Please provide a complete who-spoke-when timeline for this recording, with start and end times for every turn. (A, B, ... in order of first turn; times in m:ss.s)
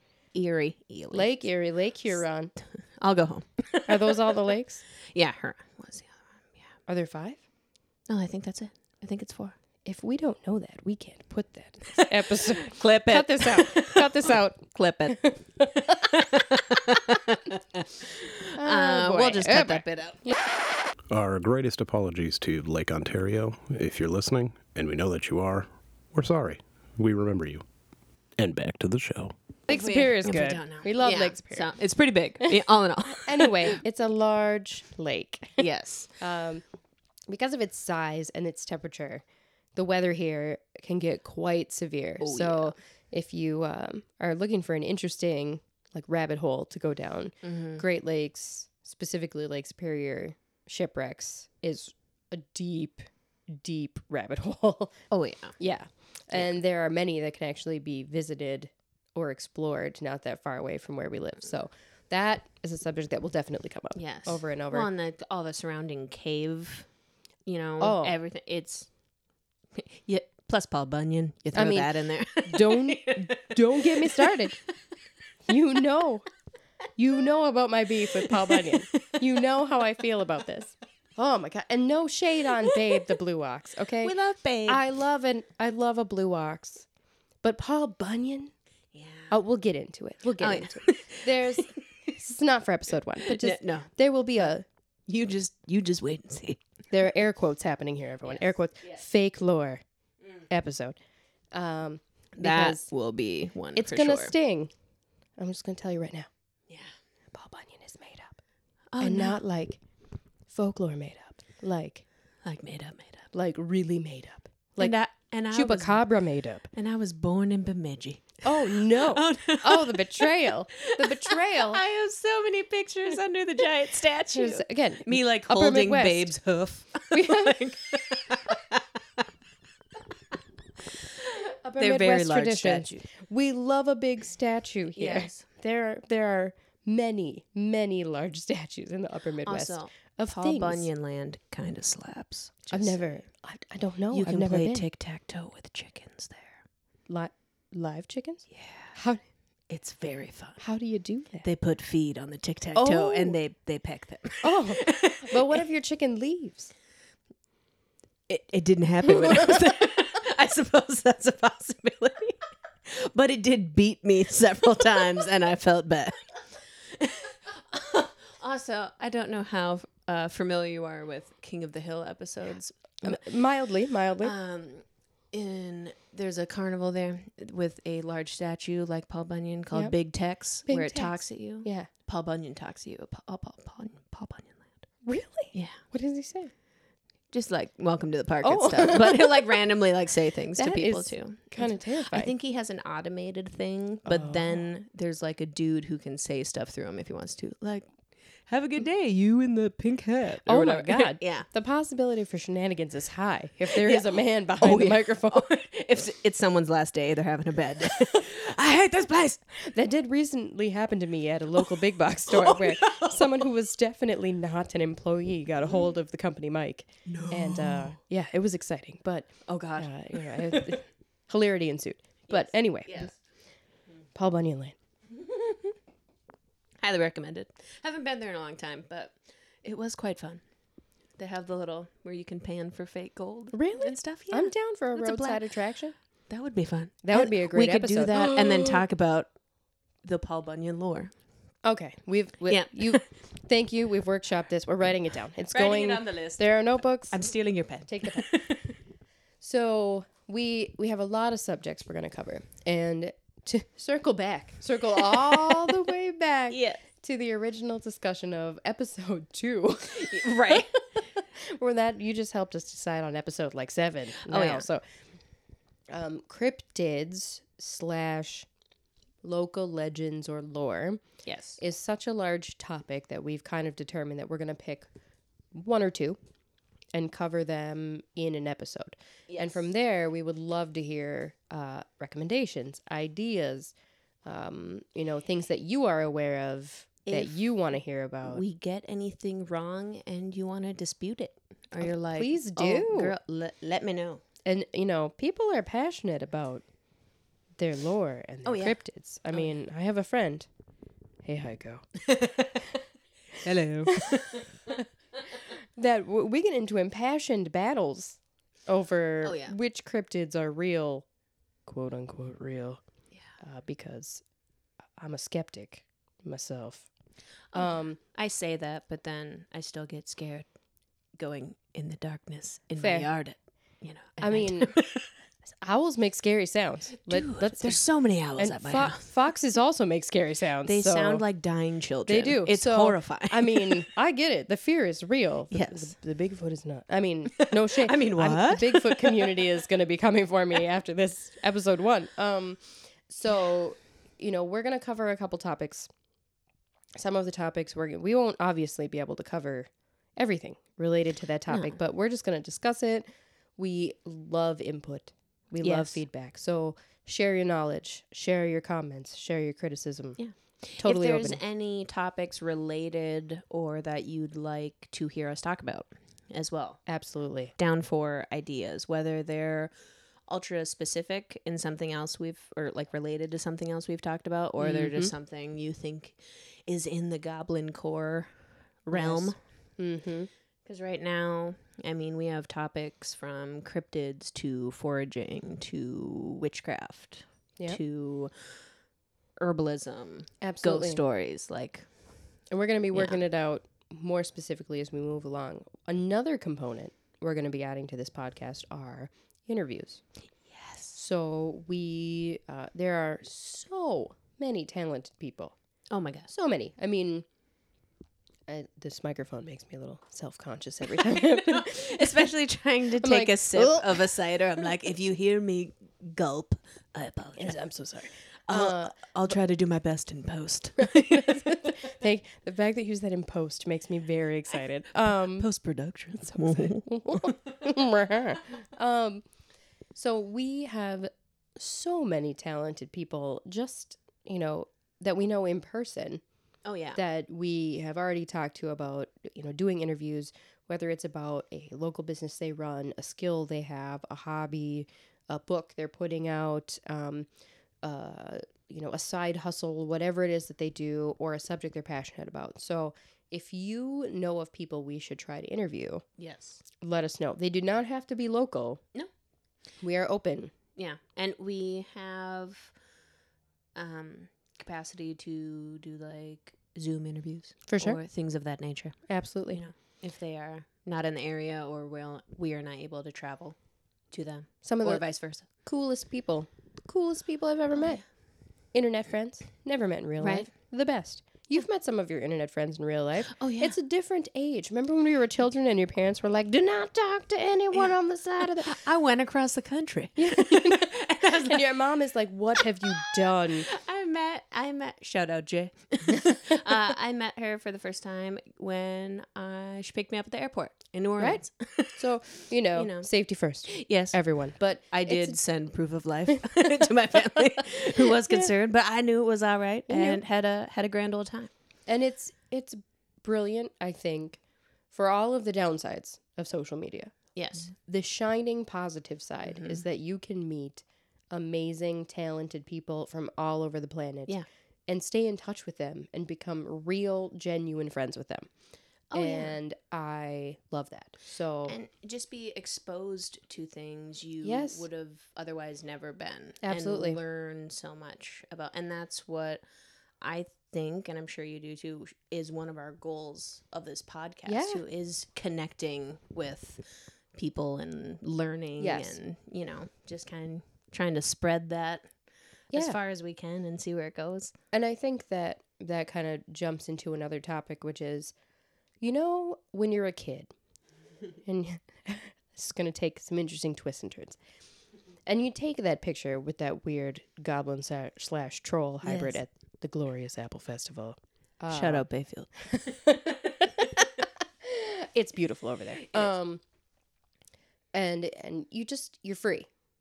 0:00.3-0:01.5 A
0:01.1-0:02.5 B
0:02.7-0:06.8 A
0:03.9-0:04.8 B
0:06.9-0:07.4 B
0:08.1-0:09.6 A
0:09.8-0:15.7 B
0:12.4-0:20.3 A
0:18.6-0:20.4 B
0:21.1-0:27.6 C
0:28.4-0:29.3 C
0:29.7-0:31.7 B
0:29.7-0:33.8 A
0:32.4-0:35.6 B
0:35.6-0:36.2 A
0:36.2-0:36.6 B
0:37.3-0:39.2 B
0:39.8-1:04.9 B
0:42.2-0:42.8 A
0:47.4-0:47.8 A
0:55.1-0:55.6 A
1:04.0-1:06.9 A
1:07.4-1:08.9 A
1:07.8-1:08.2 B
1:09.7-1:14.5 A
1:11.5-1:14.6 B
1:15.5-1:16.3 B
1:17.0-1:24.2 B
1:18.3-1:19.2 A
1:24.0-1:24.8 A
1:24.7-1:26.9 B
1:27.4-1:28.5 B
1:28.9-1:29.4 A
1:29.3-1:34.6 B
1:30.4-1:32.1 A
1:33.3-1:33.9 A
1:35.1-1:36.6 A
1:36.9-1:39.8 B
1:38.2-1:39.0 A
1:40.5-1:41.0 B
1:41.5-1:42.9 B
1:42.4-1:44.3 A
1:43.8-1:44.7 B
1:45.4-1:46.3 B
1:46.7-1:47.0 A
1:47.3-1:48.4 B
1:48.9-1:49.4 A
1:49.0-1:49.8 B
1:50.5-1:52.0 B
1:52.4-1:53.3 A
1:53.3-1:55.0 B
1:54.8-1:56.1 A
1:55.5-1:56.7 B
1:56.7-2:09.2 A
1:58.4-2:01.8 B
2:04.3-2:06.3 B
2:07.1-2:07.7 B
2:10.9-2:11.2 A
2:11.6-2:20.9 B
2:11.8-2:13.0 A
2:15.0-2:15.4 A
2:19.4-2:23.1 A
2:22.7-2:24.9 B
2:24.1-2:26.6 A
2:27.1-2:29.2 B
2:28.5-2:28.9 A
2:29.7-2:30.6 A
2:30.6-2:31.5 B
2:31.4-2:35.6 A
2:32.8-2:33.4 B
2:34.4-2:36.7 B
2:38.3-2:53.2 A
2:39.1-2:39.4 B
2:53.0-2:54.3 B
2:54.2-3:04.8 A
3:00.6-3:01.9 B
3:05.0-3:06.5 B
3:05.5-3:05.8 A
3:07.3-3:21.5 A
3:08.4-3:09.6 B
3:10.6-3:12.3 B
3:14.0-3:14.6 B
3:20.5-3:25.5 B
3:23.7-3:29.4 A
3:29.6-3:43.1 B
3:32.3-3:33.5 A
3:37.1-3:38.0 A
3:39.5-3:40.8 A
3:42.3-3:43.1 A
3:44.1-3:44.8 B
3:45.1-3:45.8 A
3:46.8-3:50.4 A
3:51.2-3:55.5 A
3:53.5-3:56.0 B
3:56.3-3:59.3 A
3:57.0-3:58.8 B
4:00.0-4:01.1 A
4:01.6-4:07.3 B
4:02.4-4:03.0 A
4:05.5-4:06.5 A
4:07.1-4:08.8 A
4:07.9-4:08.3 B
4:09.4-4:24.8 B
4:15.0-4:15.7 A
4:16.5-4:16.8 A
4:19.9-4:20.7 A
4:24.3-4:24.7 A
4:25.9-4:28.5 B
4:29.2-4:31.0 B
4:31.2-4:31.6 A
4:31.6-4:34.9 B
4:35.5-4:36.2 B
4:36.9-4:43.7 B
4:39.3-4:39.7 A
4:44.2-4:48.4 B
4:47.1-4:47.7 A
4:48.2-4:54.2 A
4:51.8-4:53.2 B
4:54.4-4:56.6 B
4:57.6-5:00.5 B
4:58.4-4:58.8 A
5:01.2-5:01.9 B
5:02.0-5:02.7 A
5:03.3-5:04.2 B
5:03.4-5:04.7 A
5:05.8-5:11.1 B
5:09.2-5:09.6 A
5:11.7-5:12.8 B
5:13.4-5:14.2 B
5:15.0-5:16.9 B
5:17.5-5:20.5 A
5:17.5-5:18.0 B
5:21.2-5:25.1 A
5:22.8-5:23.1 B
5:24.2-5:24.8 B
5:25.6-5:27.8 B
5:27.0-5:29.1 A
5:28.4-5:31.2 B
5:30.6-5:33.9 A
5:32.1-5:45.9 B
5:35.5-5:36.0 A
5:37.4-5:39.5 A
5:47.0-6:00.2 B
5:51.5-5:51.8 A
5:55.6-5:56.0 A
6:00.2-6:06.8 A
6:00.8-6:01.4 B
6:06.9-6:07.5 B
6:07.6-6:09.7 A
6:10.3-6:19.4 A
6:14.6-6:15.1 B
6:18.9-6:20.3 B
6:20.6-6:28.3 A
6:29.4-6:31.9 A
6:30.4-6:31.0 B
6:32.5-6:40.0 B
6:32.9-6:33.2 A
6:40.5-6:41.0 A
6:40.9-6:45.6 B
6:45.9-6:46.3 A
6:46.3-6:47.3 B
6:48.5-6:52.2 B
6:51.0-6:57.6 A
6:53.0-6:54.1 B
6:57.4-6:59.1 B
6:58.5-7:01.8 A
7:00.8-7:05.4 B
7:05.1-7:07.7 A
7:06.3-7:09.2 B
7:09.9-7:16.2 B
7:16.6-7:17.0 A
7:17.0-7:27.3 B
7:27.8-7:36.0 B
7:36.2-7:36.6 A
7:36.8-7:38.8 B
7:39.8-7:40.5 B
7:40.8-7:42.7 A
7:43.8-7:49.0 A
7:47.7-7:48.0 B
7:49.1-7:49.6 B
7:49.5-7:53.6 A
7:54.1-7:55.5 A
7:54.6-7:55.0 B
7:55.6-7:58.0 B
7:58.7-8:08.8 B
8:00.2-8:00.5 A
8:03.3-8:03.8 A
8:08.6-8:11.7 A
8:10.2-8:13.7 B
8:12.6-8:22.1 A
8:21.2-8:25.4 B
8:22.7-8:23.1 A
8:23.7-8:24.2 A
8:24.9-8:31.5 A
8:28.0-8:28.5 B
8:29.9-8:30.2 B
8:31.9-8:48.5 B
8:37.4-8:37.7 A
8:39.4-8:39.8 A
8:49.1-8:49.6 A
8:49.1-8:51.8 B
8:51.7-8:59.6 A
8:54.4-8:54.8 B
8:56.6-8:57.2 B
9:00.2-9:12.1 A
9:04.5-9:04.8 B
9:08.8-9:09.2 B
9:12.7-9:14.6 A
9:12.7-9:13.0 B
9:14.7-9:18.3 B
9:19.0-9:20.5 B
9:21.4-9:24.4 B
9:25.3-9:32.0 B
9:29.0-9:29.4 A
9:31.7-9:33.3 A
9:32.7-9:33.9 B
9:34.6-9:36.6 B
9:37.9-9:39.7 B